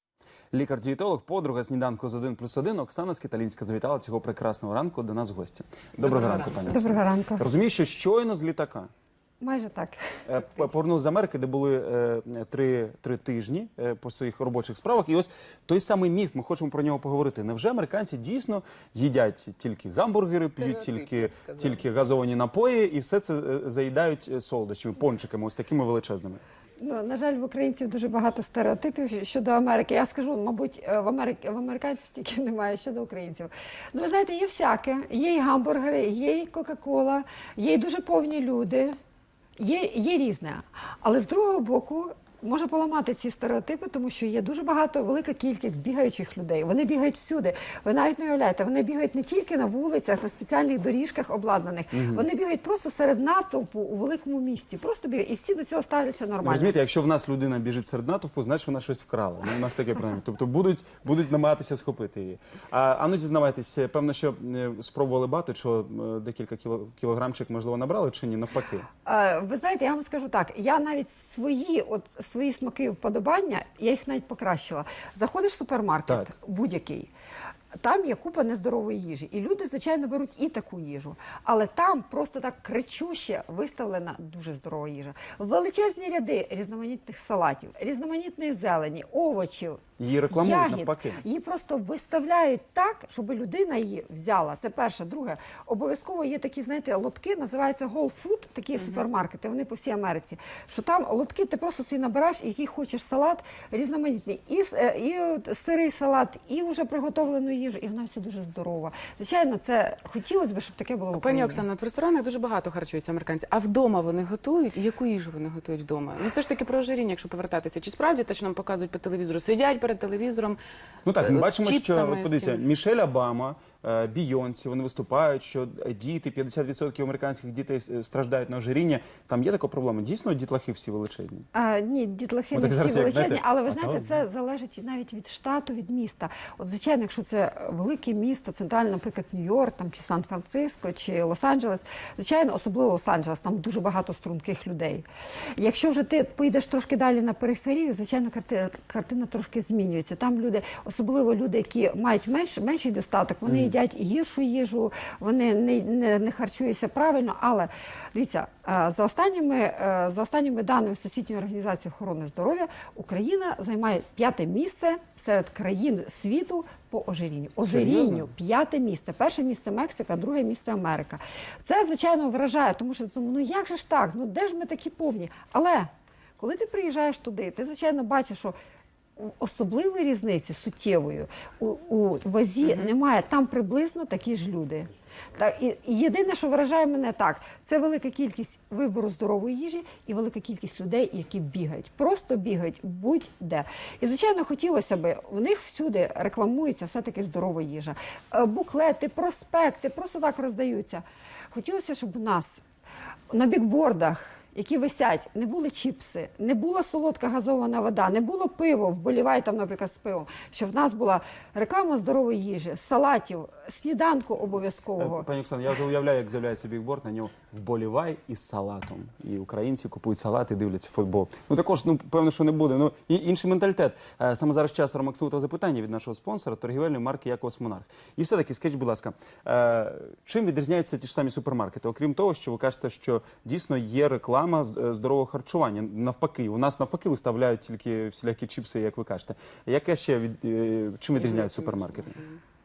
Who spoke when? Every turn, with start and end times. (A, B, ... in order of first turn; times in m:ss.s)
0:00.5-0:08.9 A
0:06.6-0:07.4 B
0:09.4-0:10.0 B
0:10.3-0:26.4 A
0:20.6-0:21.8 C
0:26.8-0:38.9 B
0:39.6-0:56.7 B
0:51.9-0:52.2 A
0:56.4-1:08.8 A
1:09.0-1:17.1 B
1:17.8-1:51.6 B
1:30.0-1:31.2 A
1:51.1-2:00.6 C
2:01.0-2:11.5 A
2:01.2-2:02.6 C
2:11.5-2:25.0 B
2:12.5-2:14.1 A
2:25.6-2:58.5 B
2:33.5-2:33.7 A
2:47.6-2:48.3 A
2:59.2-3:22.6 B
3:23.3-3:35.3 B
3:35.0-4:02.2 A
4:01.2-4:02.4 C